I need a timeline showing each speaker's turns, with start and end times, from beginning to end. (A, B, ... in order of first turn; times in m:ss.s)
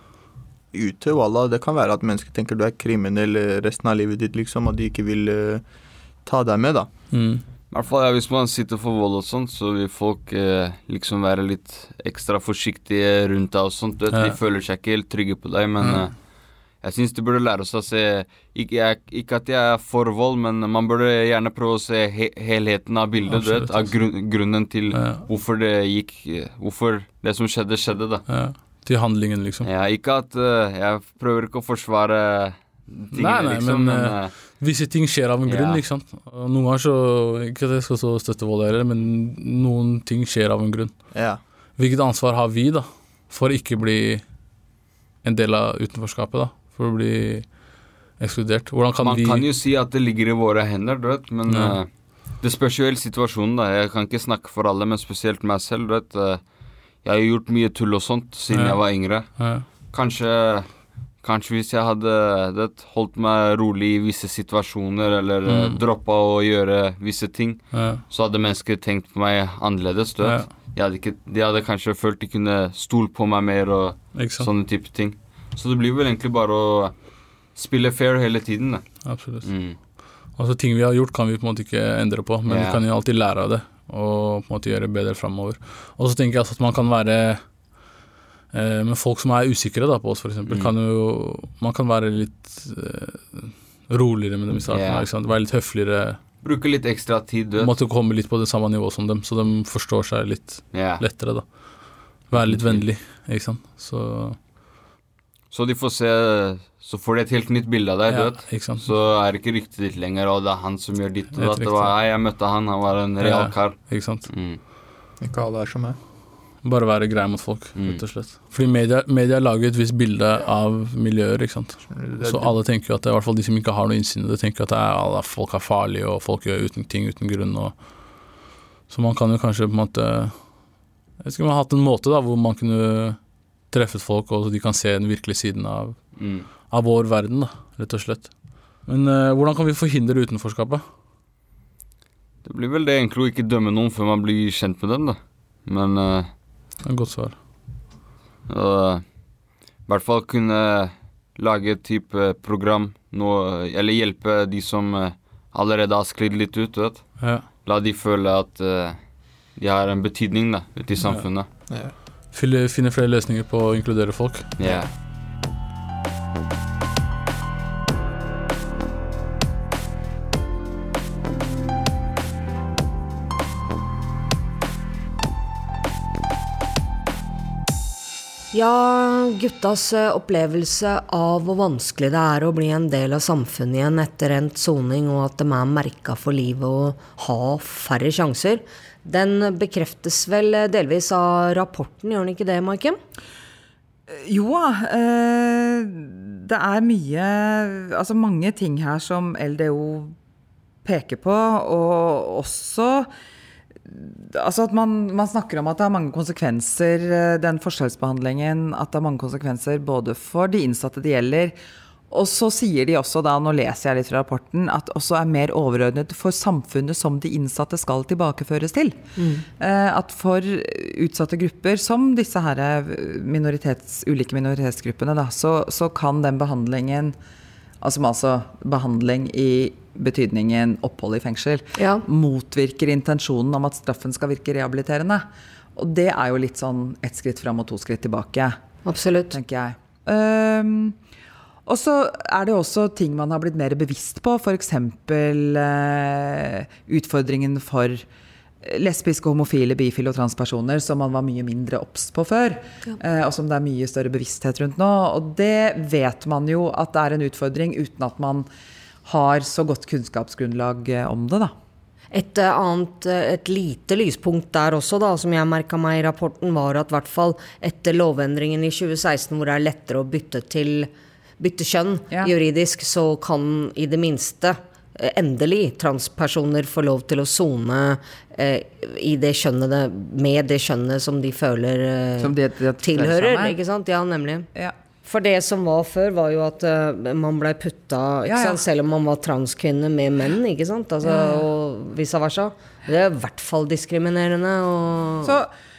0:00.7-0:05.6 A
0:06.2-0:06.9 A
0:07.1-0:07.4 B
0:07.7-0:28.2 C
0:23.3-0:24.1 B
0:24.9-0:25.2 B
0:28.3-0:29.6 B
0:29.6-0:34.3 C
0:33.1-0:41.2 B
0:35.4-0:35.8 C
0:41.1-0:41.4 A
0:41.8-0:44.2 B
0:45.2-0:49.4 B
0:49.0-0:56.4 C
0:51.5-0:51.8 B
0:57.0-1:19.8 C
0:58.5-0:59.6 B
1:05.5-1:05.8 B
1:07.7-1:08.0 B
1:10.2-1:10.5 B
1:14.1-1:14.5 B
1:19.0-1:27.6 B
1:22.5-1:22.8 C
1:28.5-1:36.2 B
1:30.4-1:30.7 C
1:34.7-1:35.0 C
1:36.4-1:37.7 C
1:37.6-1:44.4 B
1:40.7-1:41.0 C
1:42.4-1:42.8 C
1:45.5-1:54.6 C
1:48.1-1:48.8 B
1:51.3-1:51.9 B
1:53.2-1:54.3 B
1:55.2-1:56.0 A
1:56.6-2:08.3 B
1:57.8-1:58.0 C
2:01.9-2:02.6 A
2:08.9-2:13.2 B
2:13.7-2:20.8 B
2:16.2-2:16.5 C
2:22.4-2:26.3 C
2:26.8-2:27.4 B
2:28.5-2:29.1 C
2:29.8-2:41.5 C
2:37.2-2:37.4 B
2:41.7-2:41.9 A
2:42.3-2:44.6 B
2:44.6-2:44.9 C
2:58.5-3:13.0 D
3:14.1-3:20.2 E
3:20.8-3:23.1 E
3:23.8-3:31.6 E
3:32.1-3:39.0 E
3:39.2-3:39.4 D
3:39.6-3:47.2 E
3:47.8-3:58.6 E
3:51.8-3:52.0 D
3:58.8-3:59.3 D
3:59.3-4:01.0 E
4:01.6-4:08.0 E
4:08.6-4:18.5 E
4:19.0-4:21.5 E
4:22.1-4:44.5 D
4:42.2-4:43.6 E
4:45.0-4:55.4 D
4:48.3-4:48.6 E
4:51.0-4:51.5 E
4:55.2-4:55.5 E